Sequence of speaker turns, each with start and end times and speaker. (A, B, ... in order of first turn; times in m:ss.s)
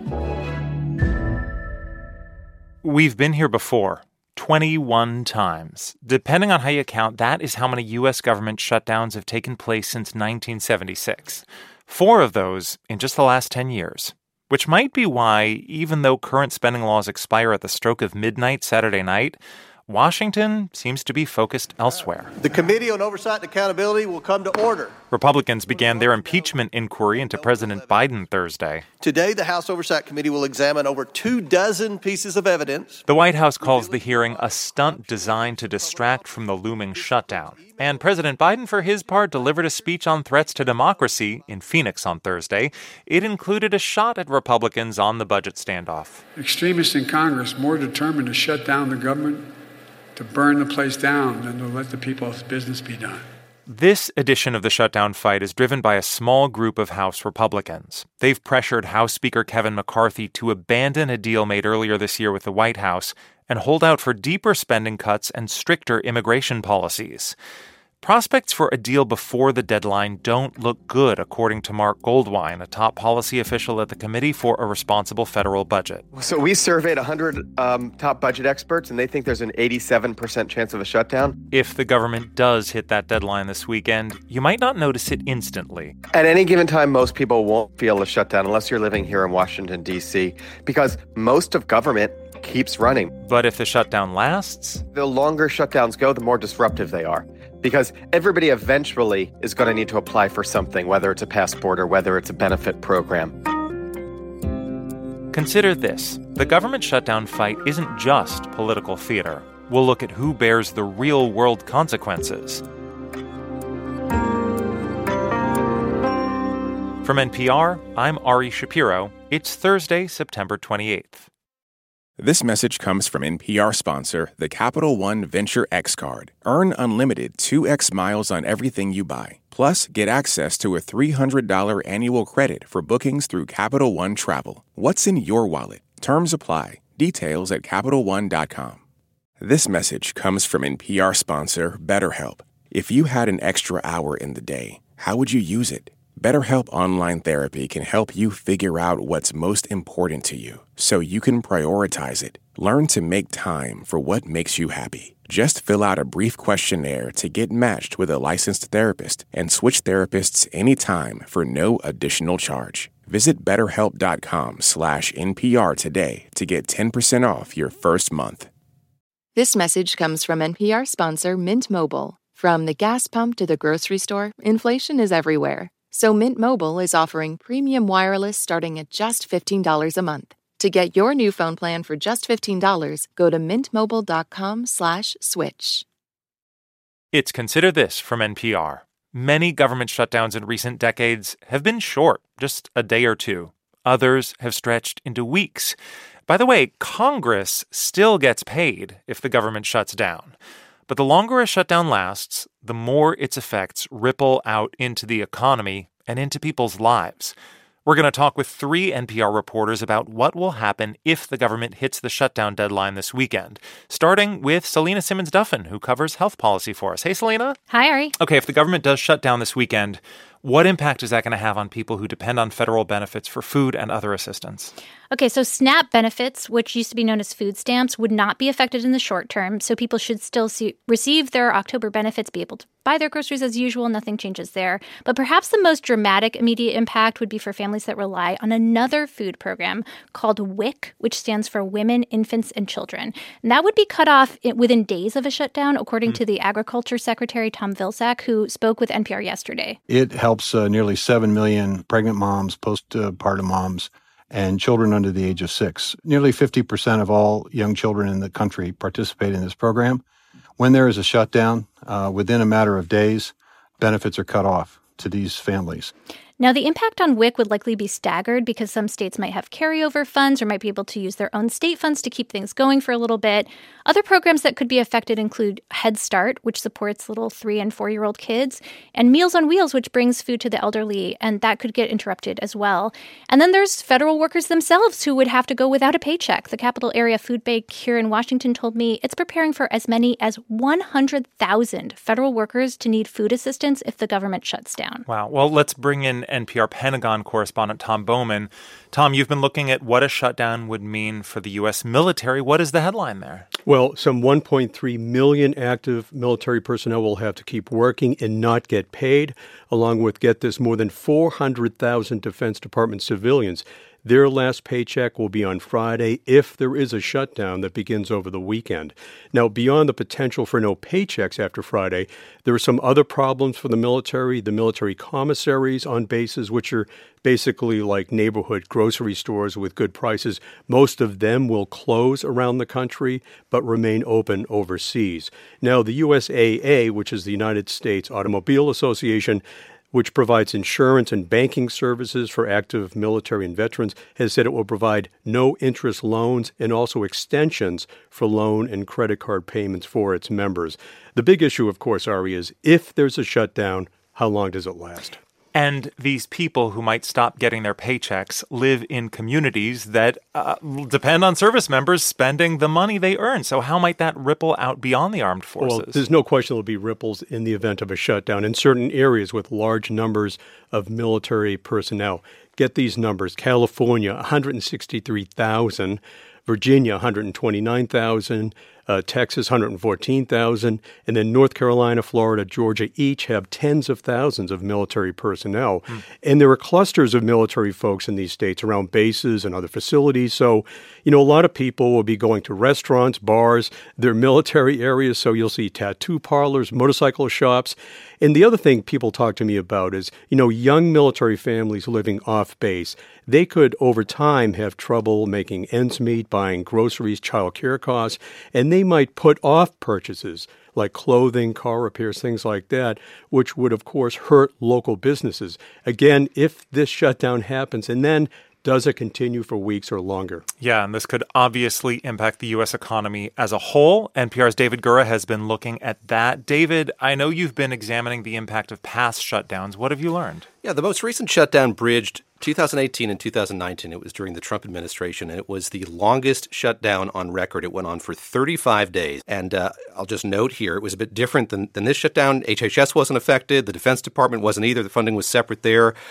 0:02.8-0:22.3 A
0:22.4-0:25.0 B
0:25.1-0:28.8 A
0:25.7-0:26.6 B
0:27.2-0:28.0 B
0:29.0-0:33.0 B
0:33.1-0:46.2 A
0:33.6-0:36.2 B
0:37.0-0:37.9 B
0:46.4-0:49.5 C
0:50.2-0:53.2 C
0:53.7-1:07.3 A
1:08.0-1:16.0 A
1:16.1-1:21.4 D
1:21.5-1:25.9 A
1:26.1-1:33.1 D
1:33.2-1:34.8 A
1:34.9-1:43.3 D
1:45.3-1:52.6 A
1:57.0-2:01.3 A
2:02.2-2:18.8 E
2:19.4-2:48.5 E
2:49.3-3:05.8 F
3:07.1-3:15.8 A
3:16.3-3:20.4 A
3:20.9-3:27.3 A
3:27.8-3:37.6 A
3:37.7-3:38.1 G
3:38.2-3:44.7 A
3:45.1-4:09.8 G
4:09.9-4:20.0 H
4:20.6-4:25.9 H
4:26.4-4:55.0 G
4:55.1-5:03.5 A
5:03.7-5:55.2 I
5:55.5-6:06.0 A
6:05.6-7:00.4 I
7:00.6-7:10.5 A
7:10.6-7:25.9 J